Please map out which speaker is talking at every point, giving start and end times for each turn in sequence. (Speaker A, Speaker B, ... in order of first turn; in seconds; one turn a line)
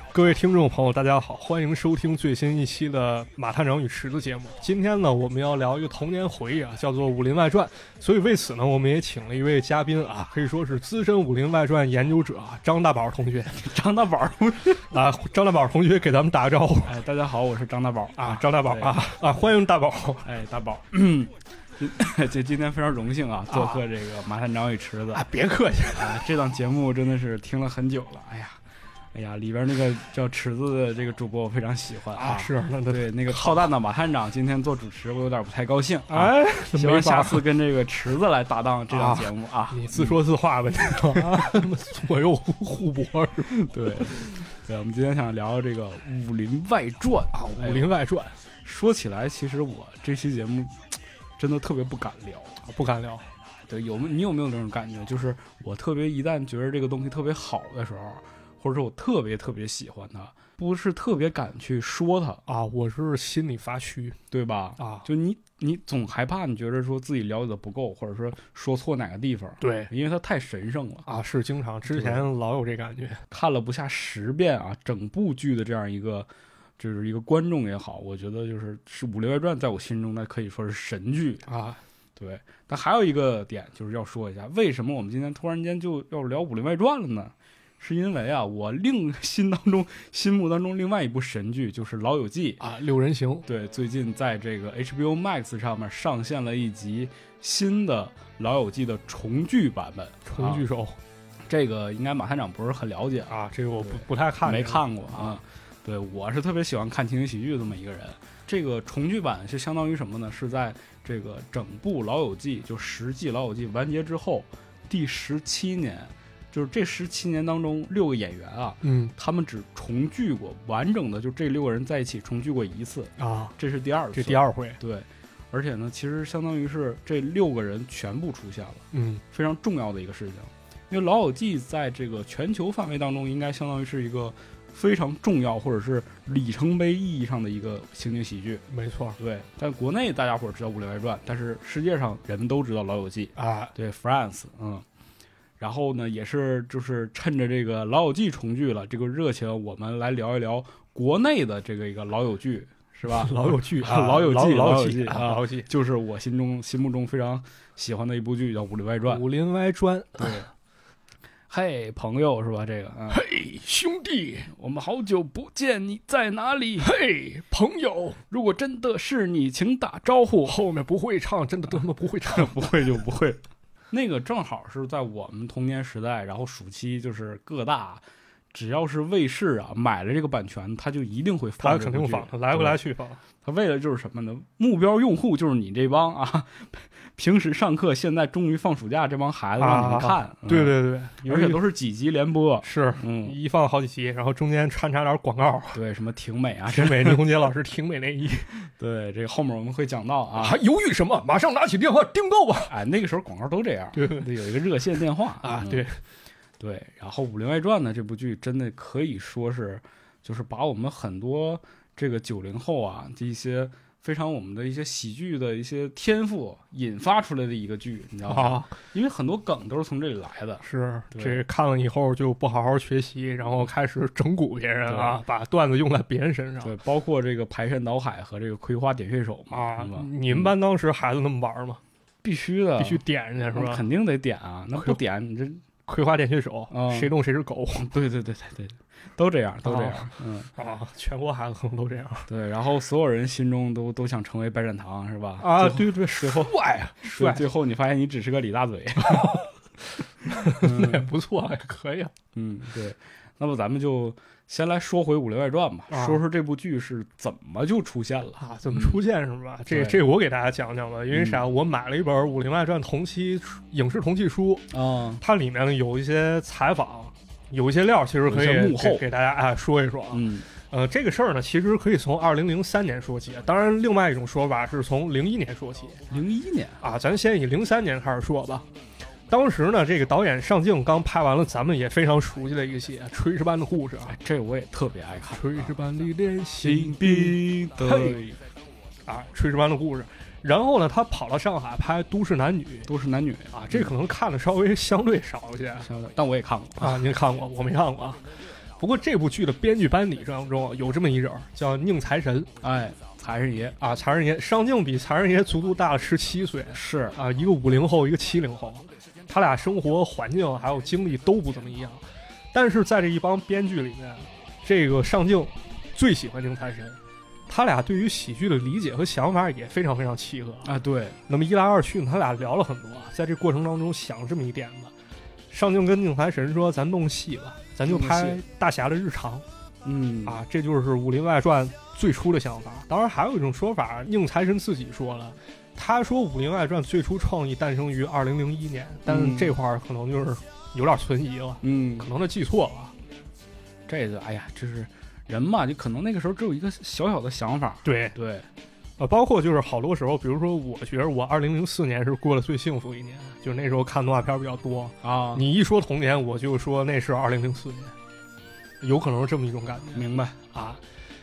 Speaker A: 0.1-13.6
Speaker B: 13.5-14.9
Speaker A: 14.9-17.0
Speaker B: 16.8-18.9
Speaker A: 18.1-20.2
Speaker B: 20.2-25.2
Speaker A: 23.5-23.8
Speaker A: 25.1-26.3
Speaker B: 25.9-28.6
Speaker B: 29.1-40.2
Speaker A: 32.1-33.7
Speaker A: 36.1-37.4
Speaker A: 38.9-44.4
Speaker B: 41.0-41.6
Speaker B: 43.5-47.9
Speaker A: 47.3-48.4
Speaker B: 48.6-50.8
Speaker B: 51.4-52.6
Speaker A: 52.6-53.3
Speaker B: 53.7-62.4
Speaker A: 62.5-64.2
Speaker B: 64.3-71.1
Speaker A: 64.8-65.0
Speaker A: 69.6-69.9
Speaker A: 71.0-73.2
Speaker B: 71.9-72.3
Speaker B: 73.3-81.5
Speaker A: 81.5-81.8
Speaker B: 82.2-92.6
Speaker A: 92.6-93.5
Speaker B: 93.5-100.6
Speaker A: 100.2-101.0
Speaker B: 101.5-138.6
Speaker A: 103.3-105.4
Speaker A: 118.8-119.1
Speaker A: 123.2-123.5
Speaker A: 124.1-124.8
Speaker A: 128.9-129.2
Speaker A: 138.7-139.2
Speaker B: 139.2-144.8
Speaker A: 143.3-143.7
Speaker B: 145.6-159.2
Speaker A: 153.1-155.7
Speaker A: 159.1-160.5
Speaker B: 160.2-160.5
Speaker B: 161.5-163.2
Speaker A: 163.1-164.5
Speaker B: 164.5-166.9
Speaker A: 166.8-168.2
Speaker B: 168.3-170.6
Speaker A: 170.4-172.6
Speaker B: 172.3-182.8
Speaker A: 181.6-183.2
Speaker B: 183.4-193.4
Speaker A: 189.6-191.6
Speaker A: 192.6-195.8
Speaker B: 195.7-197.2
Speaker A: 196.7-198.5
Speaker B: 198.6-200.6
Speaker A: 200.4-202.7
Speaker B: 202.7-205.8
Speaker A: 203.9-204.3
Speaker A: 205.4-206.0
Speaker B: 206.6-221.4
Speaker A: 218.3-218.7
Speaker A: 220.6-226.7
Speaker B: 224.9-225.2
Speaker B: 226.6-230.5
Speaker A: 229.5-231.8
Speaker B: 232.2-235.6
Speaker A: 232.8-233.8
Speaker A: 235.9-237.9
Speaker B: 236.7-237.1
Speaker B: 237.7-240.5
Speaker A: 239.6-242.3
Speaker B: 242.3-249.4
Speaker A: 245.4-247.4
Speaker A: 249.1-249.4
Speaker A: 250.2-252.1
Speaker B: 250.4-251.1
Speaker B: 252.3-259.0
Speaker A: 255.9-256.2
Speaker A: 258.4-264.7
Speaker B: 259.7-260.0
Speaker B: 261.1-261.5
Speaker B: 264.7-265.2
Speaker A: 265.2-276.0
Speaker B: 268.2-269.1
Speaker B: 270.1-270.4
Speaker B: 276.1-276.8
Speaker A: 276.8-278.6
Speaker A: 279.3-284.1
Speaker B: 284.1-285.7
Speaker A: 285.3-288.2
Speaker B: 286.6-288.4
Speaker A: 289.1-292.9
Speaker B: 292.9-293.9
Speaker A: 293.5-295.9
Speaker B: 295.8-297.0
Speaker A: 296.8-298.2
Speaker A: 298.8-302.5
Speaker B: 302.6-303.8
Speaker A: 303.8-320.7
Speaker B: 306.7-307.2
Speaker B: 320.6-321.2
Speaker A: 321.3-324.9
Speaker A: 325.5-329.4
Speaker B: 327.8-328.4
Speaker B: 329.8-330.4
Speaker A: 330.2-342.9
Speaker B: 339.1-339.6
Speaker B: 341.6-342.1
Speaker B: 343.9-348.5
Speaker A: 347.8-348.1
Speaker A: 349.0-357.9
Speaker B: 355.0-355.5
Speaker A: 358.8-360.8
Speaker B: 359.9-360.4